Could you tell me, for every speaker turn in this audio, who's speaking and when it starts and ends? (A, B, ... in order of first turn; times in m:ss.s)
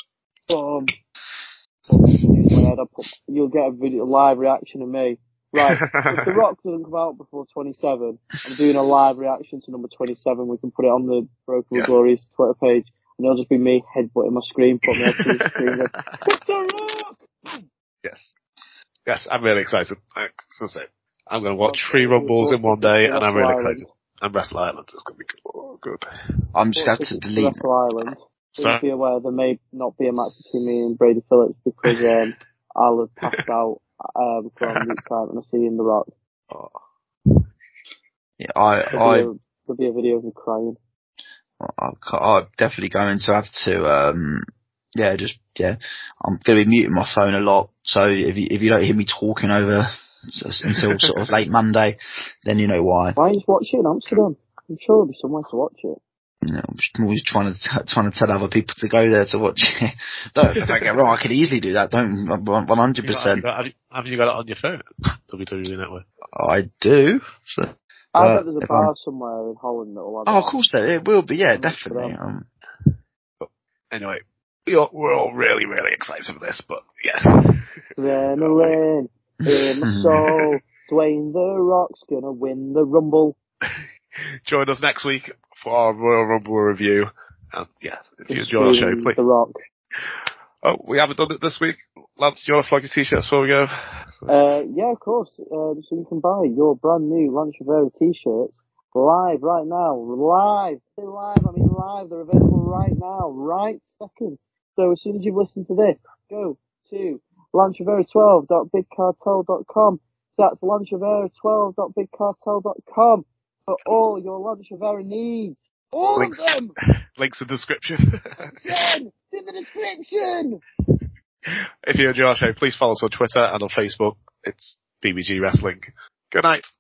0:00.5-0:00.9 A
0:01.9-0:17.6 A
0:05.6-0:06.3 B
0:15.0-0:16.2 B
0:18.0-0:18.3 B
0:19.1-0:26.1 B
0:21.6-0:23.9 A
0:26.6-0:27.6 C
0:26.8-0:36.1 A
0:28.6-0:28.8 B
0:36.5-0:36.8 B
0:38.4-0:39.3 C
0:38.9-0:40.8 A
0:41.6-0:44.4 C
0:45.0-0:53.2 C
0:53.2-0:56.0 A
0:56.4-1:03.4 C
1:03.0-1:06.0 B
1:06.4-1:08.9 C
1:08.2-1:10.6 A
1:10.3-1:12.5 C
1:11.6-1:12.2 A
1:12.8-1:17.8 B
1:18.0-1:23.4 A
1:18.4-1:18.8 B
1:19.8-1:20.2 C
1:24.5-1:29.2 B
1:28.3-1:29.6 A
1:30.0-1:34.3 B
1:34.3-1:56.7 A
1:56.2-1:56.5 B
1:57.2-1:58.4 B
1:58.6-2:00.6 A
2:01.5-2:06.7 B